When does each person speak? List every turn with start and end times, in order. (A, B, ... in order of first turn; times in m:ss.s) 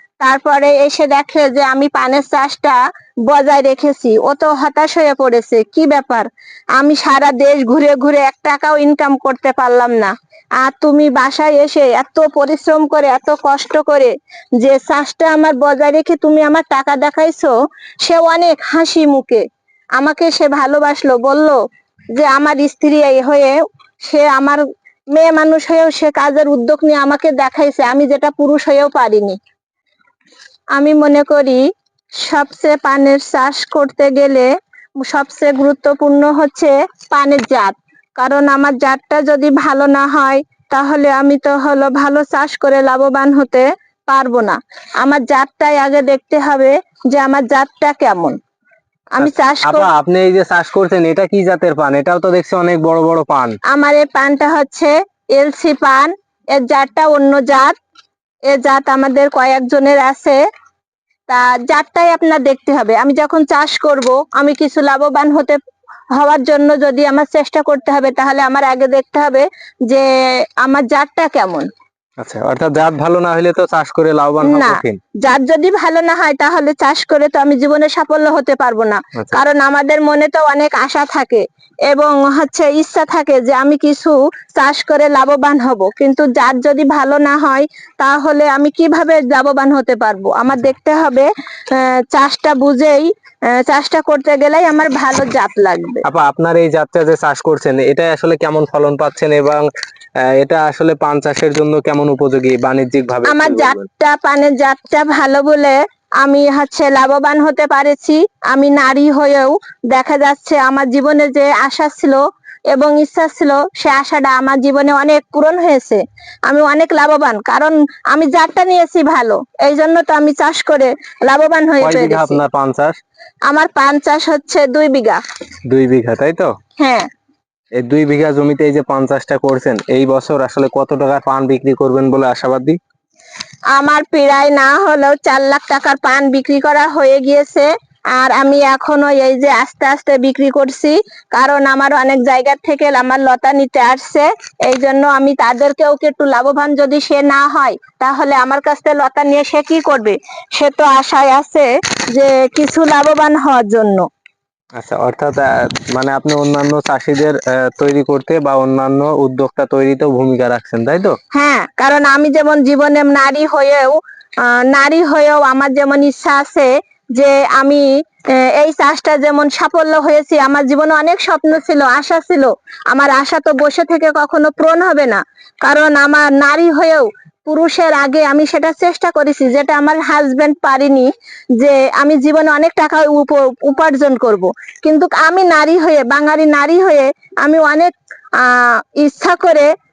0:00.2-0:19.4 A
0:20.0-0:21.6 A
0:22.1-0:24.6 A
0:25.1-0:29.4 A
0:30.8-0:31.6 A
0:32.2-0:34.5 A
0:35.0-0:48.4 A
0:49.2-0:49.9 A
0:49.2-0:53.6 B
0:53.7-0:57.8 A
0:58.5-1:00.4 A
1:01.3-1:05.6 A
1:06.2-1:11.7 A
1:12.2-1:15.0 B
1:14.4-1:36.0 A
1:36.0-1:39.6 B
1:40.3-1:43.8 B
1:43.2-2:02.4 A
2:01.8-2:03.0 B
2:03.5-2:05.2 A
2:05.7-2:06.5 B
2:06.8-2:07.1 A
2:07.8-2:12.8 B
2:13.7-2:34.1 A
2:34.8-2:41.2 B
2:41.3-2:47.9 A
2:48.4-3:09.7 A